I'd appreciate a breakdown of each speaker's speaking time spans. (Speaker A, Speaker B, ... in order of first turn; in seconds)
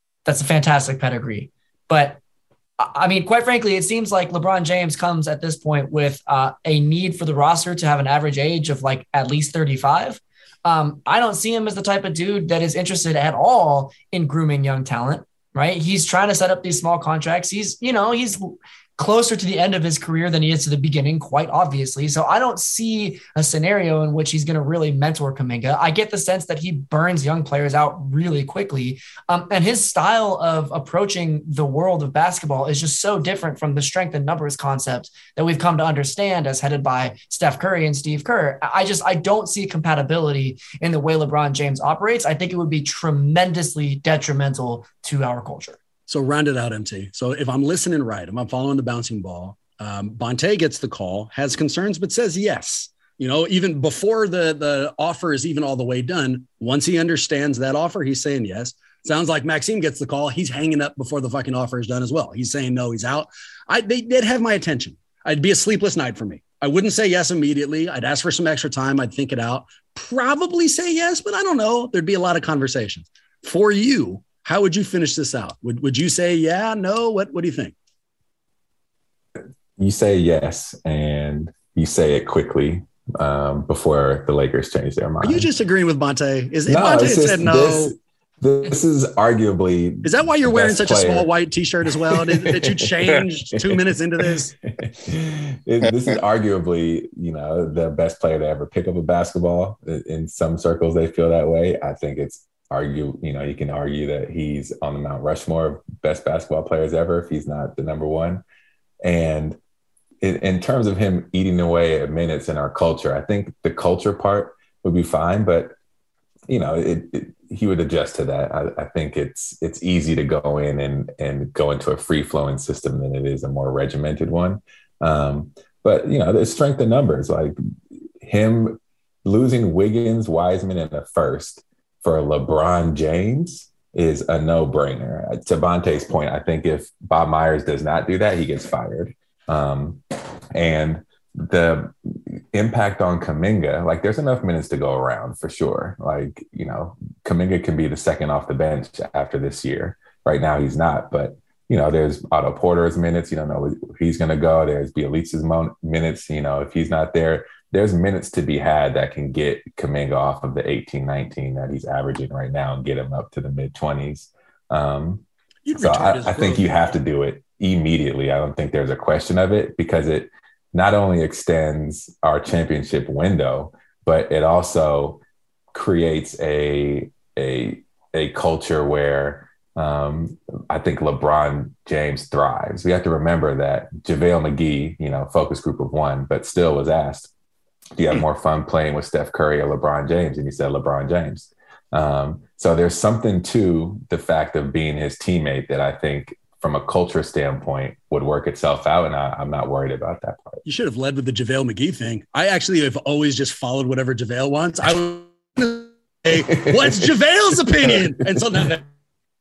Speaker A: 0.2-2.2, 2.8-45.8
Speaker B: 46.1-77.7, 85.2-87.9, 90.0-94.5, 165.6-166.7, 200.6-208.8
Speaker C: 79.8-85.5, 86.7-91.3, 92.1-92.9, 94.8-108.4, 109.0-109.6, 110.2-115.7, 116.5-127.5, 128.2-140.0, 140.5-175.2, 175.7-187.3, 187.9-200.6, 206.7-207.1